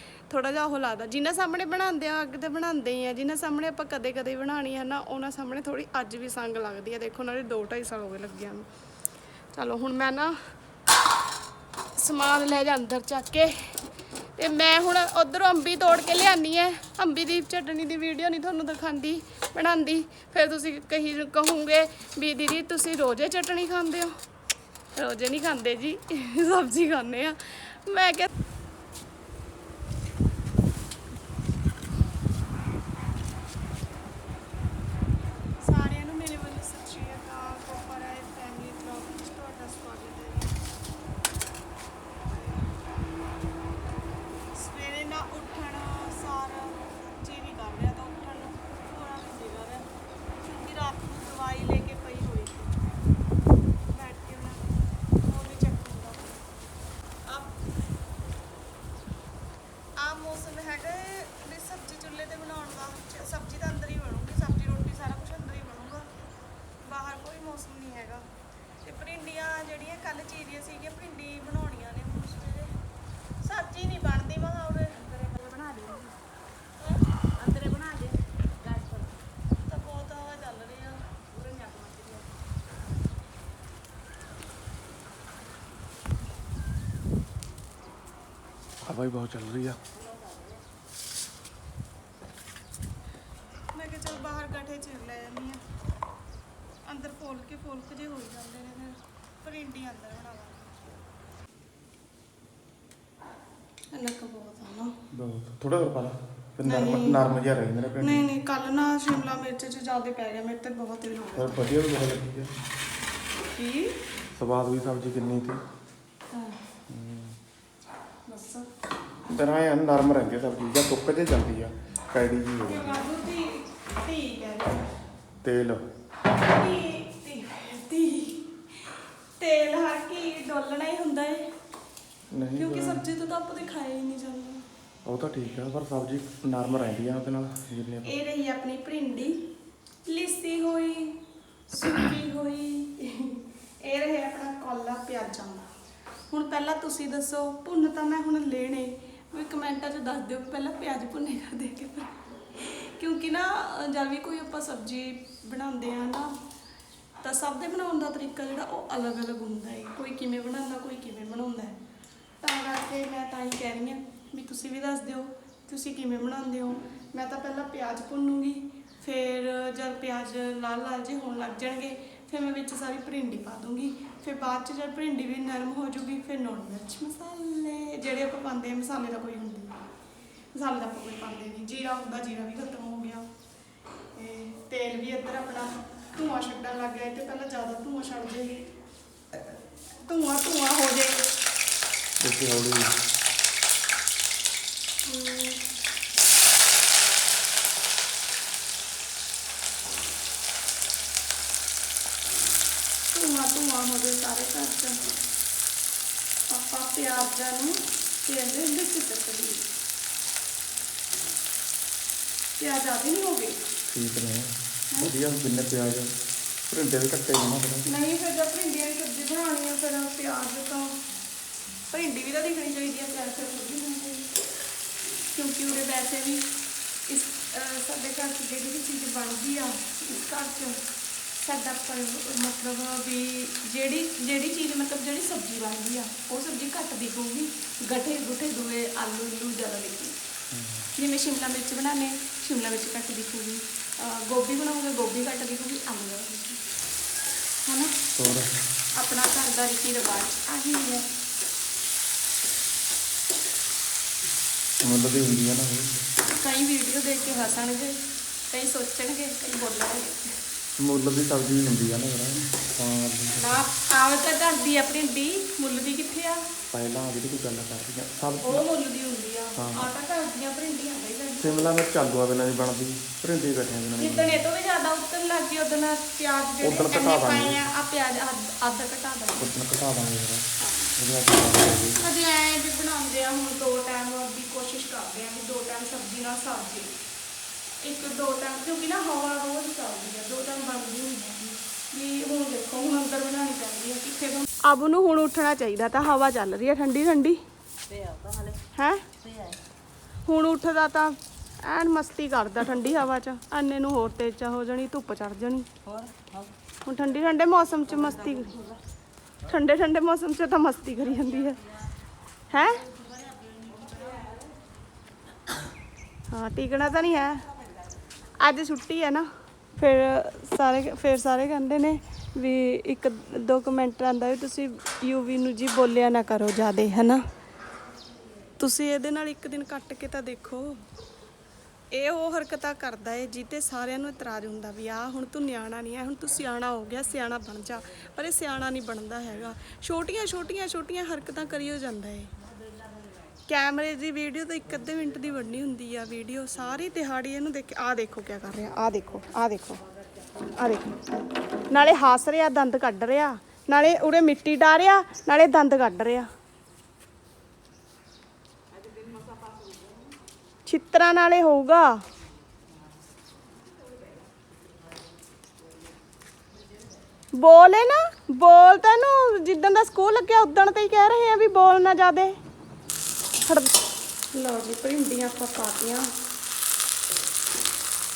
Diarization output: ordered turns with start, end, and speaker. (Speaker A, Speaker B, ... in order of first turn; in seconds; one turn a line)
Speaker A: 0.3-8.7
Speaker A: 9.5-10.4
Speaker A: 11.9-13.7
Speaker A: 14.3-24.1
Speaker A: 24.9-28.3
Speaker A: 35.6-40.6
Speaker A: 42.2-42.7
Speaker A: 44.5-49.9
Speaker A: 50.4-52.8
Speaker A: 53.9-56.3
Speaker A: 57.2-57.6
Speaker A: 60.0-66.1
Speaker A: 66.8-68.2
Speaker A: 68.8-72.7
Speaker A: 73.4-75.0
Speaker B: 74.9-76.2
Speaker A: 76.8-77.0
Speaker B: 77.3-79.1
Speaker A: 79.7-81.1
Speaker B: 81.3-82.2
Speaker C: 88.8-89.8
Speaker B: 90.0-90.4
Speaker A: 93.7-95.6
Speaker A: 96.8-100.7
Speaker A: 103.9-104.9
Speaker C: 105.1-108.3
Speaker A: 106.6-107.2
Speaker A: 108.0-111.7
Speaker C: 111.3-112.5
Speaker A: 113.5-114.0
Speaker C: 114.3-115.6
Speaker A: 116.3-116.6
Speaker C: 116.9-117.3
Speaker A: 118.3-118.7
Speaker C: 119.3-123.0
Speaker A: 122.7-124.8
Speaker C: 125.4-125.8
Speaker A: 126.4-128.5
Speaker A: 129.4-131.5
Speaker C: 132.3-133.1
Speaker A: 132.6-134.6
Speaker C: 135.0-138.1
Speaker A: 138.0-139.4
Speaker A: 140.1-145.7
Speaker A: 146.3-156.3
Speaker A: 157.2-161.8
Speaker A: 162.4-179.7
Speaker A: 180.5-183.3
Speaker A: 184.2-188.6
Speaker A: 190.0-191.3
Speaker C: 192.2-192.9
Speaker A: 195.0-195.6
Speaker A: 203.1-205.0
Speaker A: 206.5-209.6
Speaker A: 212.6-213.6
Speaker C: 213.9-216.1
Speaker C: 216.7-217.9
Speaker A: 217.8-221.0
Speaker A: 221.9-224.3
Speaker A: 225.3-226.4
Speaker A: 227.1-230.8
Speaker A: 231.4-240.2
Speaker C: 240.5-240.9
Speaker A: 240.9-246.6
Speaker A: 247.7-247.9
Speaker C: 248.1-248.5
Speaker A: 248.9-251.1
Speaker C: 254.8-256.0
Speaker A: 256.3-258.0
Speaker A: 258.5-260.2
Speaker C: 260.8-263.6
Speaker A: 263.3-266.5
Speaker C: 266.7-268.6
Speaker A: 268.4-271.7
Speaker C: 269.6-269.9
Speaker C: 271.4-274.4
Speaker A: 274.0-279.5
Speaker C: 276.6-277.6
Speaker C: 279.4-280.4
Speaker A: 280.6-280.9
Speaker C: 281.0-282.0
Speaker A: 282.0-286.9
Speaker A: 287.8-297.4
Speaker B: 297.9-298.6
Speaker A: 298.7-299.0
Speaker B: 299.2-299.6
Speaker A: 300.2-305.7
Speaker B: 305.8-306.5
Speaker A: 306.8-308.5
Speaker B: 307.9-308.8
Speaker A: 309.4-311.6
Speaker A: 312.5-312.8
Speaker B: 313.4-314.2
Speaker A: 316.3-317.4
Speaker A: 318.4-327.2
Speaker A: 328.6-330.8
Speaker A: 331.9-342.3
Speaker A: 343.5-349.8
Speaker A: 350.6-351.0
Speaker A: 351.7-356.3
Speaker B: 358.9-359.7
Speaker A: 360.6-362.0
Speaker A: 367.3-372.4
Speaker A: 374.3-376.1